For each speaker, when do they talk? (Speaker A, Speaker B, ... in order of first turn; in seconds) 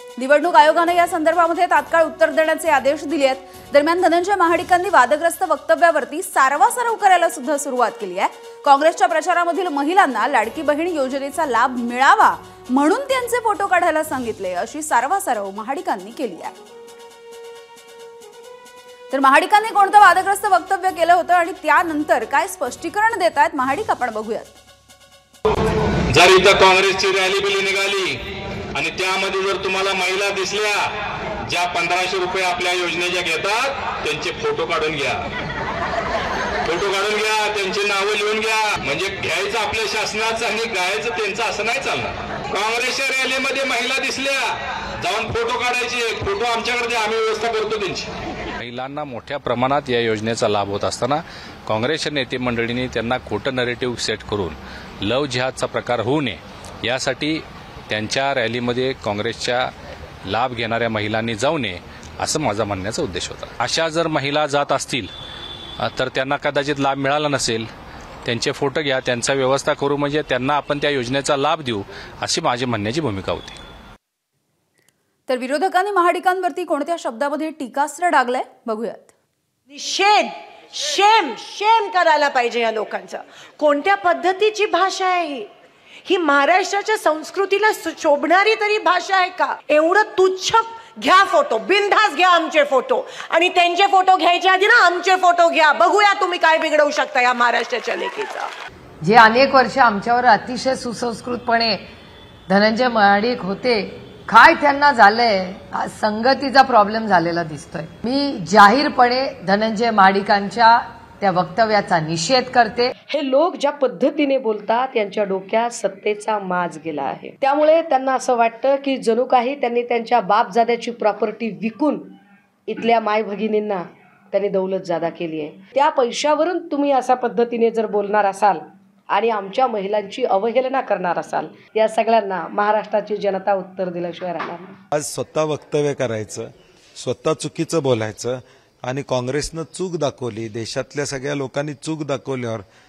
Speaker A: 0.2-16.5, 19.1-24.6, 75.3-79.1
Speaker B: 26.1-28.2, 28.7-30.8, 31.4-35.2, 36.6-48.1
Speaker C: 48.6-59.7, 60.2-65.1, 65.8-67.7, 68.2-73.6
Speaker D: 79.7-85.5, 86.1-98.5
Speaker E: 99.0-101.8, 102.5-112.9
Speaker F: 113.1-122.0, 122.7-134.8
Speaker G: 134.9-142.6